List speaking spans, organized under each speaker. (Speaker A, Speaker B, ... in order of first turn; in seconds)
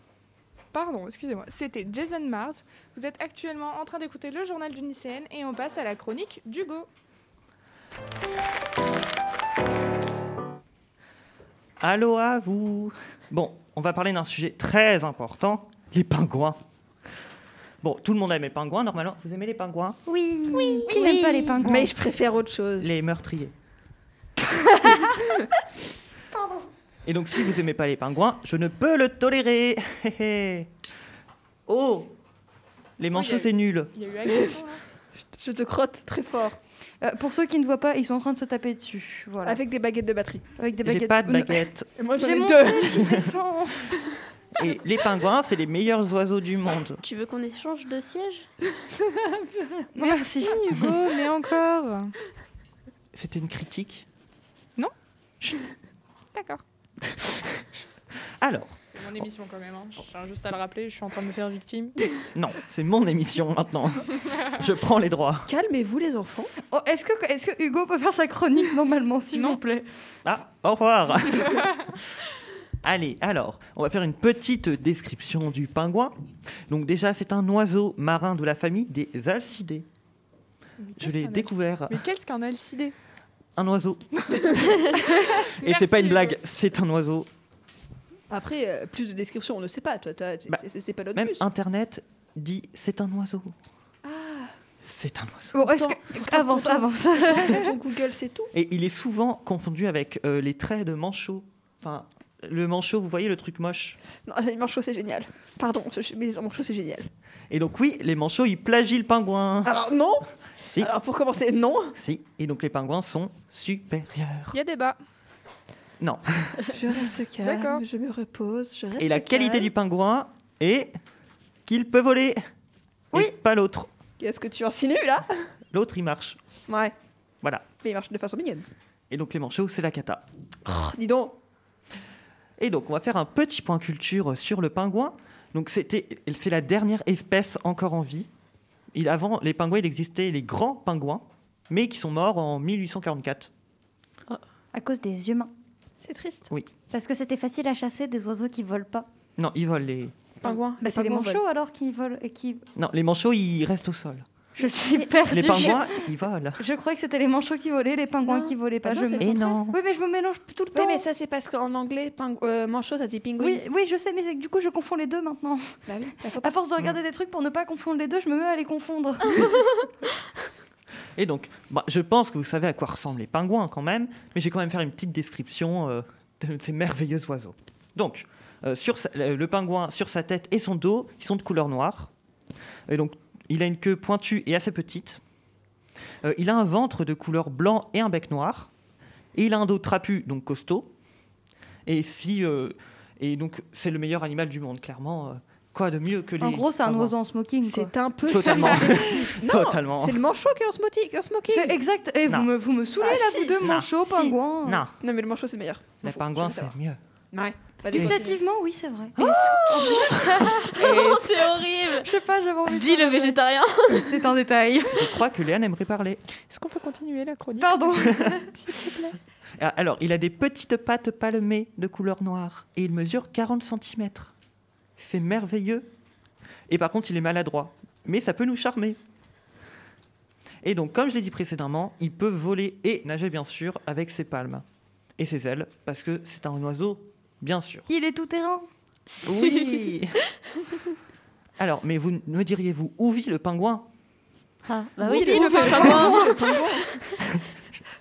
Speaker A: 0.7-6.9, 33.1-34.8, 42.2-44.1, 50.0-52.1, 56.3-56.6, 58.9-62.1, 69.3-69.6, 80.8-82.9, 84.5-86.4, 114.5-115.0, 117.4-117.8, 216.5-219.1, 245.1-246.4
Speaker B: 11.8-16.6, 17.8-20.0, 22.8-23.5, 27.1-30.7, 31.7-32.1, 33.0-33.9, 40.8-42.0, 42.8-43.3, 44.5-47.0, 53.1-54.1, 57.0-57.6, 58.4-58.8, 62.3-65.5, 70.2-72.0, 72.8-76.2, 76.7-79.9, 81.0-82.0, 83.6-87.3, 91.1-93.5, 94.8-95.6, 98.5-104.0, 107.5-109.8, 110.7-110.9, 112.0-114.6, 116.0-116.7, 119.0-120.9, 121.7-122.4, 123.1-123.9, 125.7-126.4, 127.4-127.7, 129.1-130.2, 132.6-138.3, 138.9-143.5, 149.4-150.2, 152.8-154.3, 155.3-156.6, 159.2-159.8, 171.2-182.1, 182.9-185.2, 186.2-188.7, 189.3-190.9, 191.9-197.2, 198.3-200.2, 203.6-204.0, 204.6-204.9, 206.0-207.0, 209.2-210.3, 214.9-216.2, 219.6-224.3, 225.0-225.9, 226.7-229.0, 230.6-234.6, 235.2-237.9, 239.2-240.2, 241.6-243.9
Speaker C: 20.1-21.9, 37.0-39.6, 40.6-41.6, 42.2-42.9, 50.0-50.9, 66.7-69.9, 95.5-97.8, 144.7-145.5, 146.9-149.1, 150.8-152.7, 154.6-161.1, 163.4-169.7, 196.4-197.9, 201.5-204.9, 207.9-211.4, 211.9-215.2, 217.6-218.5, 237.9-238.7
Speaker D: 20.5-21.6, 47.0-48.5, 210.5-212.1, 212.7-214.2, 239.1-240.0, 244.7-247.0
Speaker E: 21.6-22.9, 25.2-25.5, 35.3-36.6, 39.4-40.5, 42.0-43.1, 49.2-49.8, 65.5-66.5, 88.3-91.5, 94.0-94.5, 95.6-98.5, 104.2-107.1, 109.7-112.0, 116.7-119.7, 124.2-125.5, 126.7-126.9, 127.8-128.7, 130.7-131.4, 146.0-146.5, 150.4-151.4, 155.0-155.8, 158.3-159.6, 160.7-163.7, 165.9-166.6, 197.6-201.8, 203.0-204.4, 205.0-206.8, 207.3-208.4, 245.0-246.9